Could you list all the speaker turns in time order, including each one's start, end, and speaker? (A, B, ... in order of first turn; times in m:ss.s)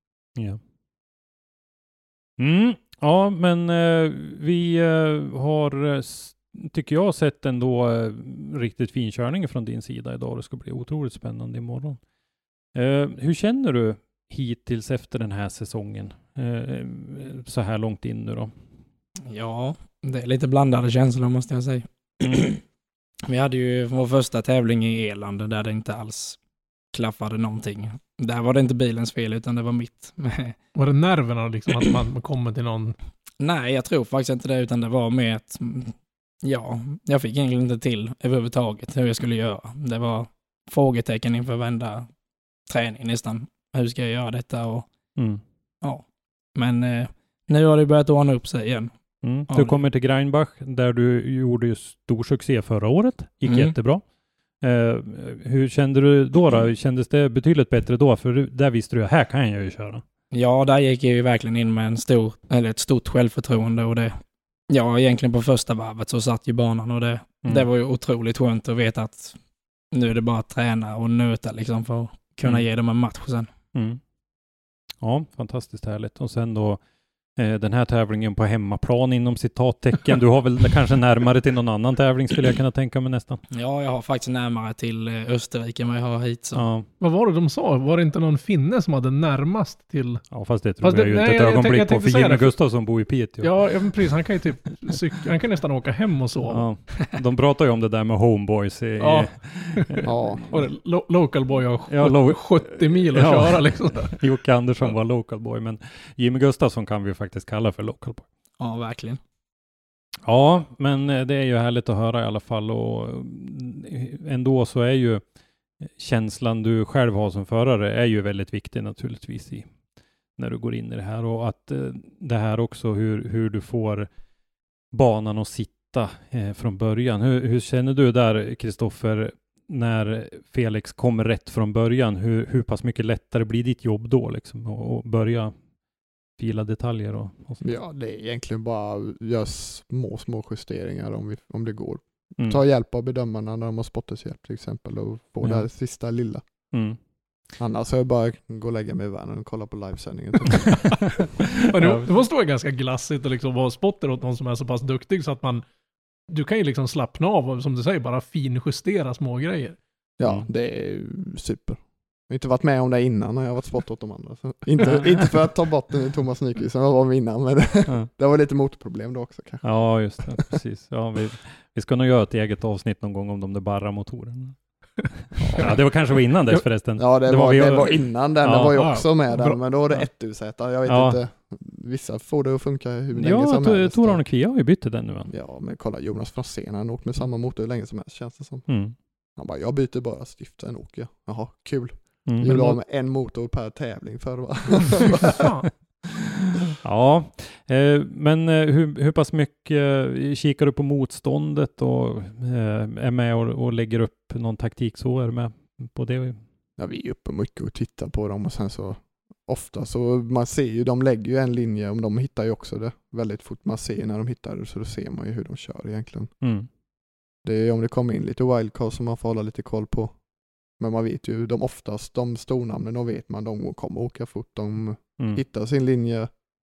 0:02.4-0:12.0 A
0:12.7-0:18.5 A
0:19.3-0:22.6 B
0:23.3-0:26.4 B
0:26.9-0:30.6 B
0:30.8-0:33.0 C
0:33.4-0:42.1 B
0:42.7-0:44.9 B
0:45.2-0:45.4 A
0:46.6-0:48.9 B
0:49.2-0:54.0 A
0:49.5-0:49.8 B
0:53.5-0:53.7 B
0:54.6-1:00.0 A
1:00.3-1:04.2 B
1:04.7-1:09.4 B
1:09.9-1:13.5 B
1:13.7-1:14.0 A
1:15.0-1:16.8 A
1:17.4-1:23.4 A
1:23.5-1:26.6 B
1:26.5-1:26.9 A
1:27.0-1:30.2 C
1:30.3-1:33.9 A
1:30.8-1:32.6 C
1:33.4-1:36.6 C
1:36.5-1:40.6 A
1:39.0-1:44.2 C
1:40.0-1:40.4 D
1:41.9-1:48.2 A
1:48.6-1:49.2 B
1:50.2-1:55.2 A
1:55.9-1:59.7 A
2:00.4-2:04.1 A
2:04.9-2:15.5 A
2:16.4-2:17.7 A
2:17.6-2:26.4 D
2:26.7-2:27.0 A
2:27.6-2:31.0 D
2:31.7-2:35.6 C
2:31.8-2:32.1 A
2:36.3-2:39.8 C
2:40.2-2:49.7 D
2:44.8-2:45.3 A
2:49.6-2:58.8 A
2:50.2-2:50.6 D
2:57.0-3:04.2 D
2:58.5-2:59.6 C
3:00.9-3:01.2 A
3:03.2-3:05.3 A
3:05.3-3:08.7 D
3:08.7-3:09.0 A
3:09.4-3:15.4 D
3:12.3-3:12.8 A
3:15.2-3:15.7 C
3:16.8-3:26.4 A
3:26.8-3:36.3 D
3:36.4-3:36.7 A
3:37.4-3:40.2 D
3:40.8-3:46.3 D